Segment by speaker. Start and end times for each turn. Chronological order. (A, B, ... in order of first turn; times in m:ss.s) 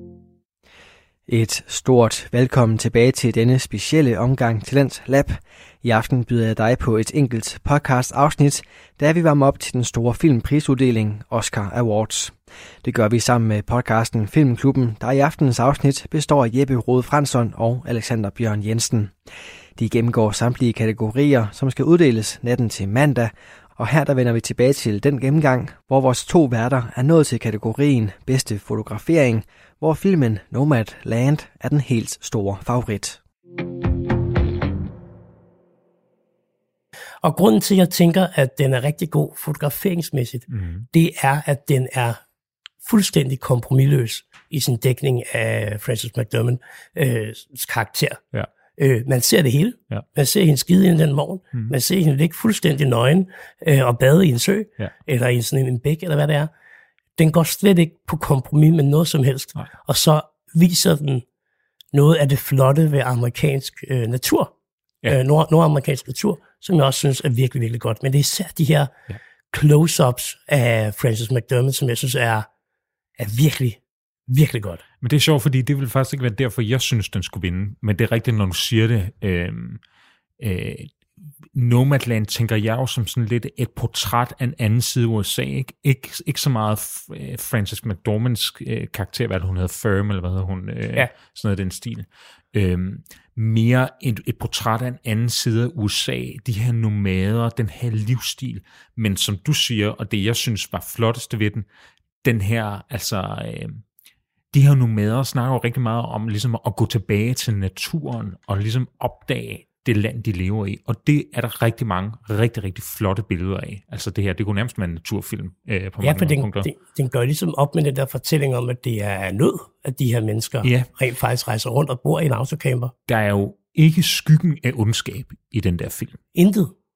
0:01.3-0:19.1 A
0:19.8-0:33.2 A
0:37.2-0:42.2 B
0:40.5-0:40.9 C
0:42.8-0:48.2 B
0:48.8-0:56.5 B
0:57.2-1:01.2 B
1:01.9-1:04.5 B
1:05.1-1:08.9 B
1:09.5-1:12.5 B
1:13.2-1:14.8 B
1:15.0-1:19.8 C
1:20.4-1:20.9 C
1:21.5-1:41.6 C
1:42.2-1:43.8 C
1:44.5-1:56.7 C
1:56.0-2:02.9 B
2:00.6-2:00.9 C
2:03.1-2:06.2 C
2:06.3-2:06.7 B